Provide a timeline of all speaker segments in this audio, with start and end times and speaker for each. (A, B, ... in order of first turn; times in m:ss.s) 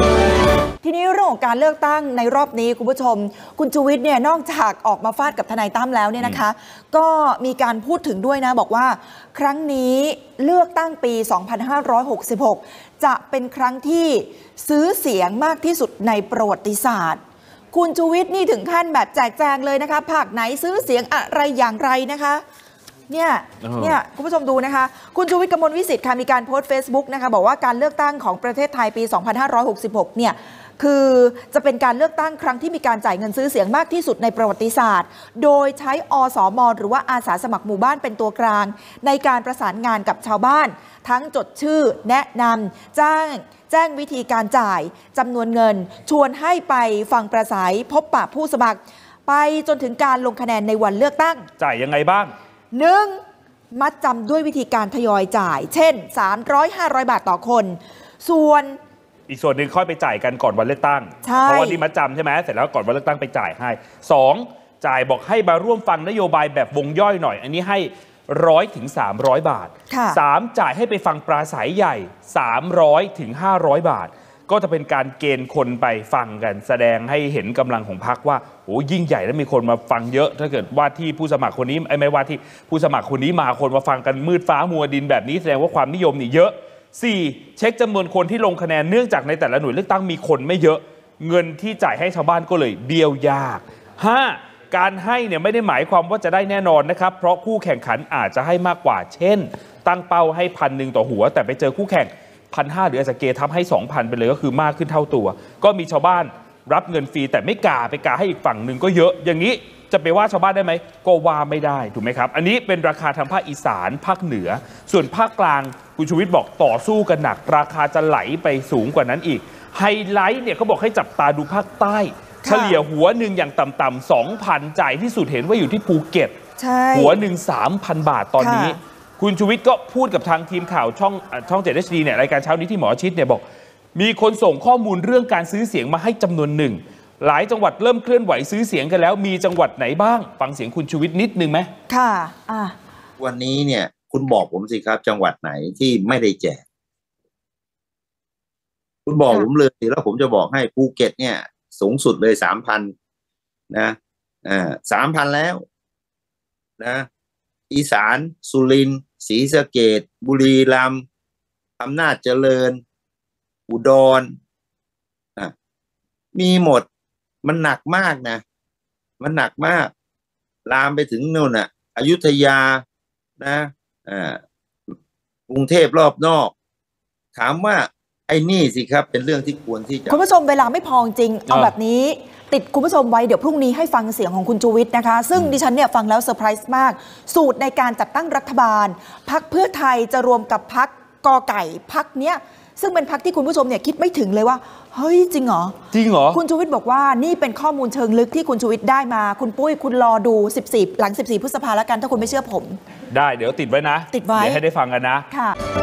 0:00.8-0:17.2 A
0:17.7-0:22.4 A
0:23.1-0:51.5 A
0:23.6-0:24.0 B
0:51.6-0:52.3 B
0:52.7-0:53.2 A
0:53.7-0:58.8 A
0:59.3-2:06.4 B
1:01.2-1:01.8 A
1:09.9-1:10.2 A
2:02.4-2:02.8 A
2:06.6-2:07.2 A
2:06.9-2:13.4 B
2:08.4-2:08.8 A
2:13.9-2:21.7 B
2:21.9-2:22.8 A
2:23.2-2:26.6 C
2:29.0-2:32.9 C
2:33.7-2:35.6 C
2:36.8-2:37.1 C
2:37.7-2:41.0 C
2:41.8-2:42.8 C
2:43.7-2:44.3 C
2:46.3-2:46.9 C
2:47.4-2:48.4 C
2:49.2-2:49.9 C
2:50.6-2:52.8 C
2:53.4-2:54.4 C
2:55.5-2:56.5 C
2:57.3-3:00.2 C
3:00.1-3:15.8 A
3:15.9-3:16.4 B
3:16.3-3:22.8 A
3:23.1-3:25.2 B
3:24.1-3:24.6 A
3:25.3-3:25.6 A